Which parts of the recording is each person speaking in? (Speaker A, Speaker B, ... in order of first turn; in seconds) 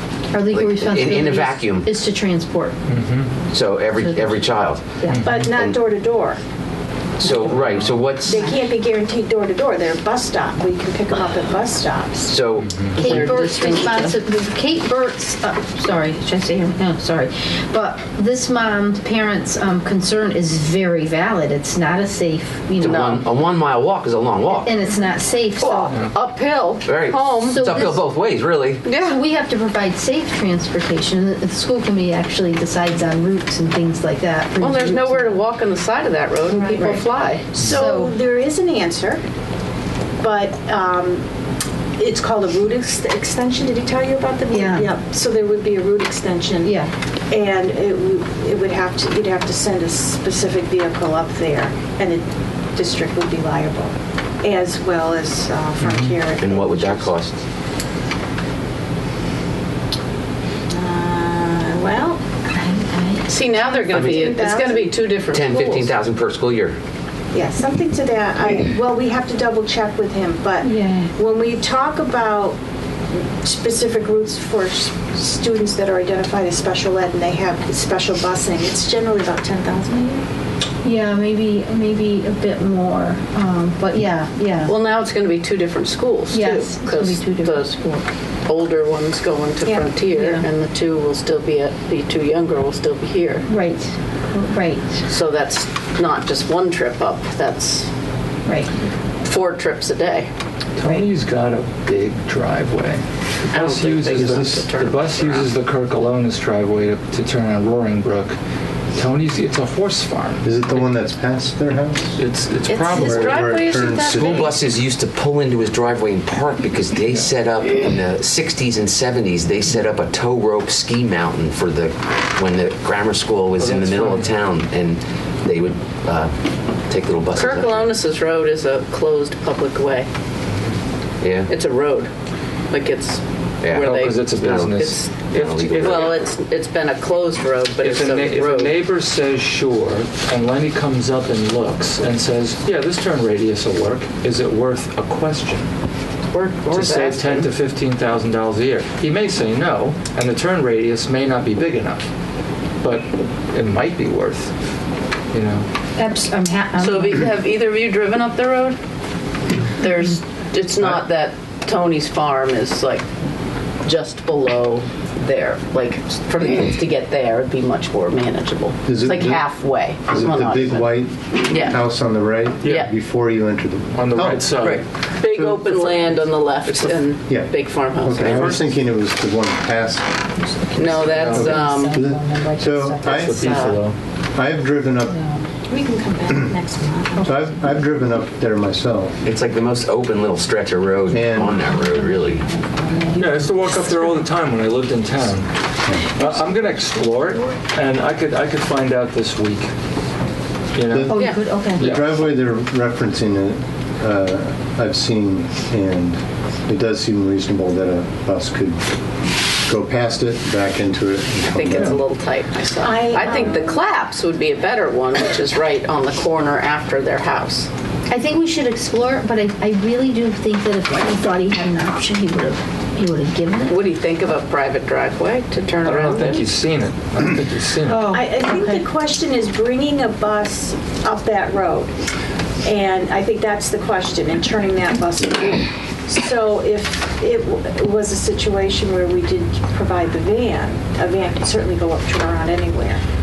Speaker A: 0.3-2.8, 4.0-4.4, 5.0-5.2, 8.3-8.6, 13.0-23.3, 24.5-26.0, 27.5-28.0, 29.0-35.4, 36.7-37.0, 37.6-38.1, 44.5-44.9, 46.6-46.9, 62.5-63.3, 70.6-71.1, 80.8-84.8, 86.3-88.0, 90.1-90.5, 93.5-95.0, 98.5-98.7, 156.0-157.3, 180.4-183.4, 185.1-185.4, 192.9-193.2, 201.1-201.9, 218.1-223.8, 227.9-228.9
Speaker B: 0.5-1.9, 3.5-5.0, 5.5-5.8, 7.2-8.4, 12.3-12.9, 22.8-24.8, 26.8-28.9, 56.4-57.4, 63.9-64.3, 65.3-66.8, 114.2-126.3, 126.9-128.0, 131.2-131.5, 133.6-136.2, 189.2-192.4
Speaker C: 2.9-3.3, 5.1-5.5, 7.7-8.0, 12.6-13.0, 55.8-56.2, 100.8-108.4, 109.0-111.0, 112.2-114.2, 123.6-124.3, 133.8-136.2, 137.8-145.7, 146.7-152.1, 152.8-154.5, 155.3-155.7, 172.6-172.9, 173.9-174.8, 176.7-177.0, 178.2-178.7, 181.1-181.6, 183.1-184.0, 193.2-199.7, 200.8-201.2, 201.8-202.2, 225.8-228.1
Speaker D: 5.2-6.4, 8.2-12.3, 36.5-37.0, 37.5-39.2, 40.2-41.2, 42.0-46.7, 47.3-57.1, 60.7-62.2, 63.7-65.0, 67.3-72.6, 73.4-80.2, 89.7-90.0, 185.7-187.9, 192.5-193.5, 212.8-213.8, 228.1-231.9, 232.6-243.0
Speaker E: 12.9-14.2, 22.8-23.2, 25.6-27.6, 28.9-29.2, 34.6-37.5, 63.3-65.9, 84.7-87.9, 88.5-93.5, 95.0-97.9, 99.2-100.3, 103.5-105.5, 112.7-114.4, 127.3-130.1, 131.5-132.1, 132.7-135.2, 135.8-138.8, 146.3-147.5, 156.8-158.8, 159.8-163.1, 163.8-170.9, 171.5-171.8, 174.6-178.6, 180.8-182.0, 183.1-183.8, 211.5-217.7, 223.7-226.5
Speaker F: 104.1-104.7, 110.4-112.2, 112.9-114.5, 168.9-174.5, 175.2-176.1, 177.3-180.2, 181.1-183.5, 184.3-185.2, 187.2-189.2, 191.1-191.6, 200.9-208.8, 209.7-212.0